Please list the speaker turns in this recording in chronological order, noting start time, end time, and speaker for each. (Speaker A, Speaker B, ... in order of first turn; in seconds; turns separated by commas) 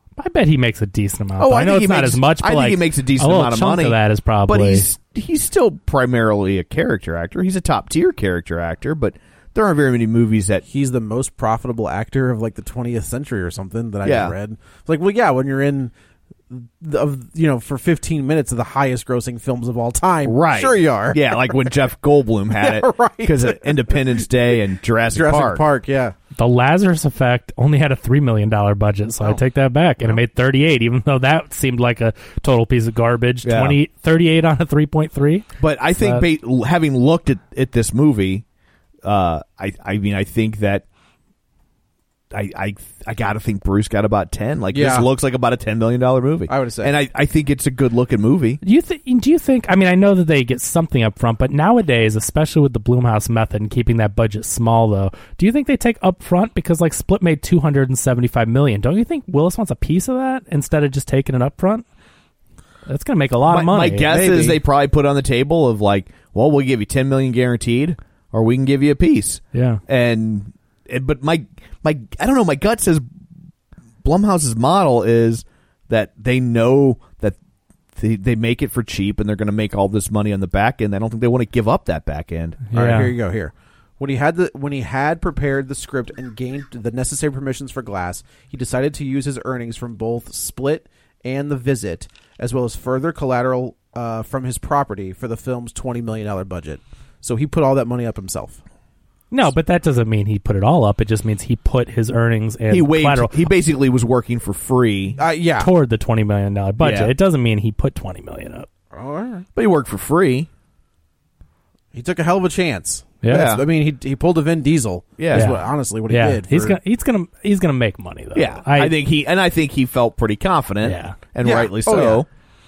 Speaker A: 0.2-4.9, Speaker B: 1.4-10.7, Speaker C: 10.7-15.9, Speaker B: 14.0-14.3, Speaker C: 16.5-21.8, Speaker B: 20.2-25.6, Speaker C: 22.6-24.2, Speaker C: 25.1-26.1, Speaker A: 26.4-35.5, Speaker B: 33.4-33.8, Speaker B: 35.6-38.5, Speaker A: 36.0-36.3, Speaker B: 39.0-40.9, Speaker B: 42.3-48.6, Speaker C: 44.7-45.1, Speaker C: 46.5-46.9, Speaker A: 48.6-61.9, Speaker A: 62.9-64.1, Speaker B: 63.5-73.0, Speaker C: 64.1-64.6, Speaker A: 69.5-69.8, Speaker B: 74.0-77.4, Speaker B: 78.0-82.6, Speaker A: 82.7-83.1, Speaker C: 82.7-98.6, Speaker A: 99.3-103.3, Speaker B: 102.7-105.2, Speaker C: 105.2-105.7, Speaker A: 105.6-108.7, Speaker B: 106.8-107.1, Speaker C: 108.9-109.5, Speaker B: 109.6-110.5, Speaker C: 111.9-116.8, Speaker A: 113.2-113.5, Speaker B: 113.3-113.6, Speaker B: 115.2-115.6, Speaker A: 115.3-119.0, Speaker B: 118.3-122.3, Speaker A: 120.8-121.2, Speaker C: 121.4-122.2